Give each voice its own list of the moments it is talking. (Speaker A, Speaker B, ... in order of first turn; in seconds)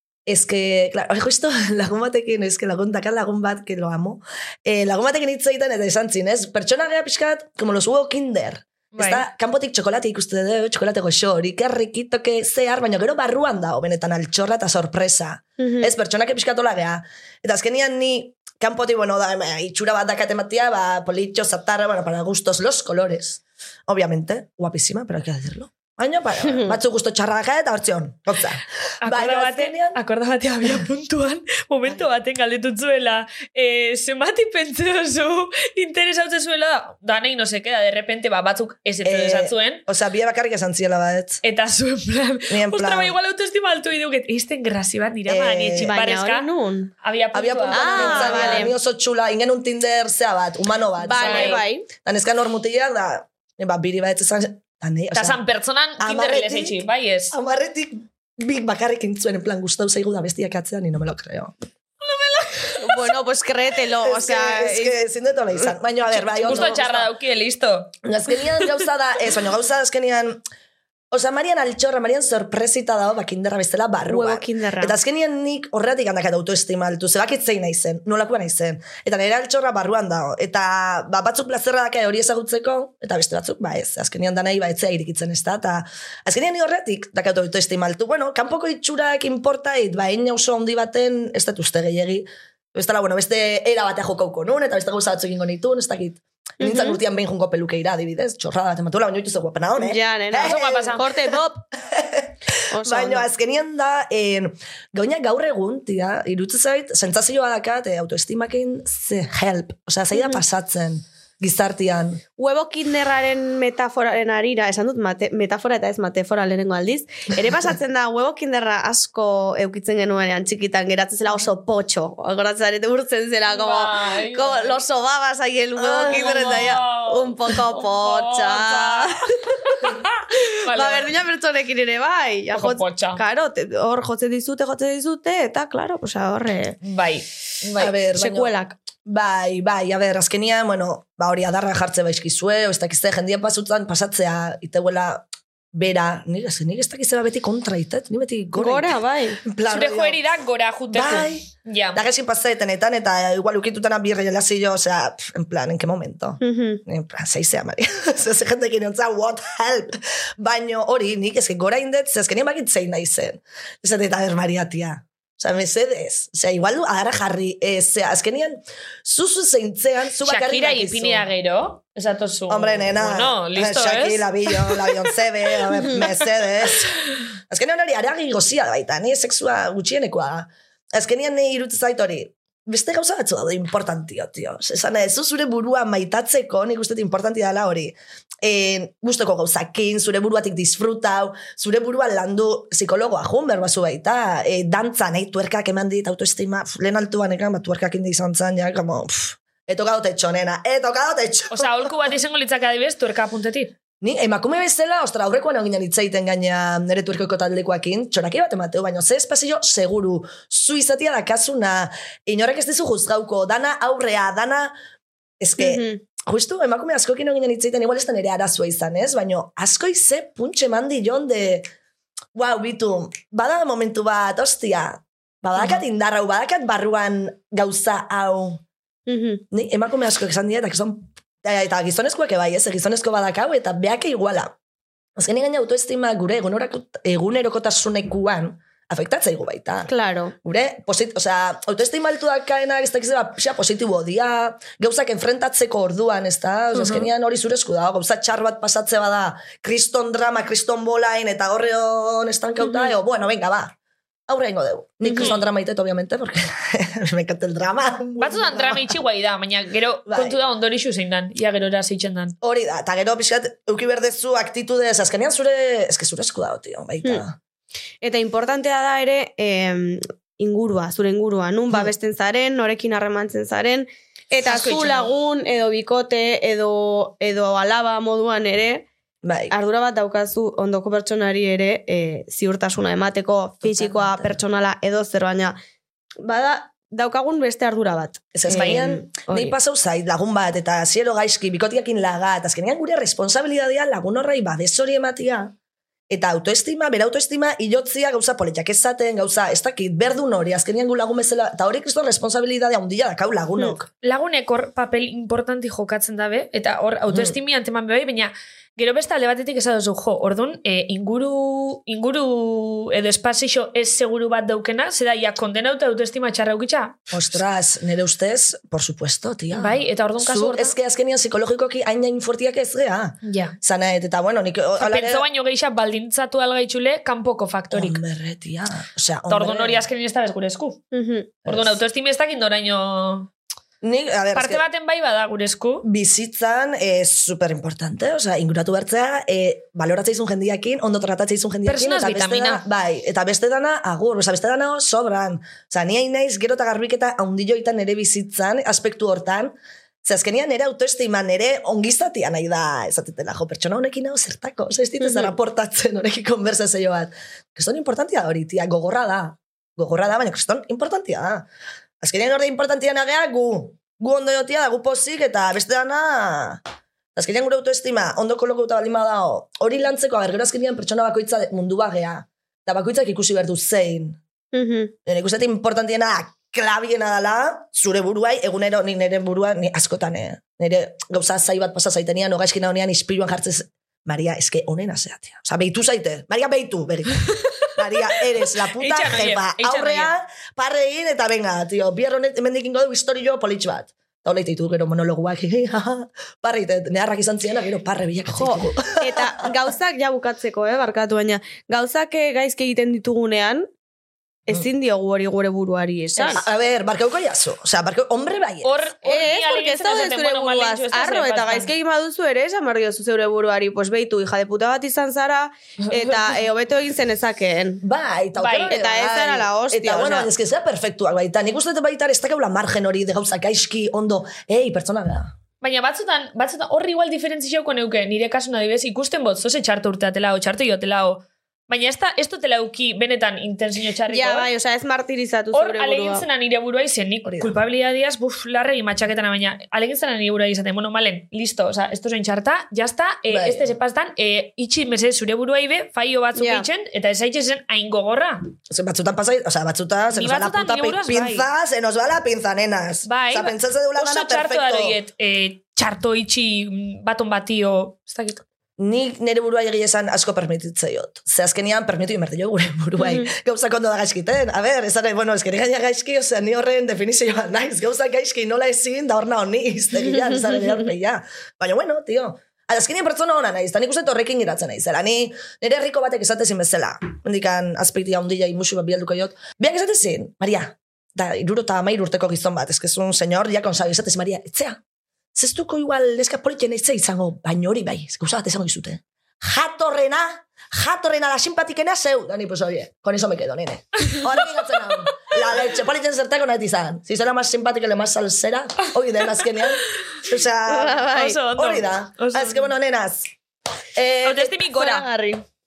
Speaker A: 0.3-30.0, 39.0-41.4, 42.5-43.2, 45.3-45.9, 47.3-55.4, 56.0-61.5, 64.0-67.1, 68.0-70.4, 71.1-101.0, 101.9-112.2, 137.8-138.5, 139.1-150.2, 150.9-171.3, 172.5-201.9, 204.0-214.7, 215.4-221.7, 222.3-228.6, 229.5-234.6, 235.2-239.9, 240.4-253.8, 254.3-258.9, 260.1-260.4, 262.4-267.4, 279.2-279.5, 283.6-284.4, 288.3-295.5, 296.1-303.9, 307.1-307.4, 317.1-325.2, 327.7-329.9, 331.4-331.8, 333.8-334.6, 335.8-361.5, 362.0-366.6, 367.1-374.2, 375.1-399.4, 406.3-408.8, 417.8-425.4, 437.2-437.6, 443.3-443.7, 448.7-455.0, 458.8-484.8, 485.4-503.3, 504.0-504.6
Speaker B: 8.9-9.2, 29.0-39.8, 41.4-46.5, 47.0-48.7, 51.2-51.6, 55.1-57.4, 62.0-63.1, 66.3-67.9, 100.3-101.1, 123.5-124.8, 125.8-129.2, 129.8-130.1, 130.7-131.1, 132.5-133.2, 136.8-137.9, 149.7-152.0, 170.2-175.1, 201.5-203.8, 255.1-255.4, 258.2-262.4, 274.4-275.1, 288.5-288.9, 304.0-317.1, 319.5-320.8, 323.2-323.6, 324.8-328.0, 329.3-330.8, 331.5-333.3, 334.4-335.8, 341.7-342.6, 388.8-390.1, 408.6-411.7, 416.0-416.3, 418.4-418.8, 425.6-434.5, 435.5-448.5, 450.1-451.5, 453.1-458.4, 501.0-502.7, 504.2-505.1
Speaker C: 15.6-15.9, 26.4-26.8, 45.8-46.9, 47.7-48.8, 51.0-51.9, 62.8-65.0, 66.3-66.8, 74.1-75.0, 96.6-97.0, 99.8-101.7, 102.7-103.3, 110.2-110.4, 112.4-130.0, 130.7-136.8, 138.2-138.8, 148.6-149.4, 156.4-156.8, 215.6-216.0, 229.1-229.4, 239.9-240.3, 246.7-247.1, 252.6-252.9, 255.0-255.4, 268.0-278.9, 279.5-285.6, 286.2-289.6, 330.9-331.3, 355.0-355.3, 374.5-374.9, 398.3-403.7, 404.5-406.4, 409.0-417.8, 418.7-420.3, 434.1-436.3, 446.4-446.7, 463.0-463.3, 500.7-501.4, 504.7-505.4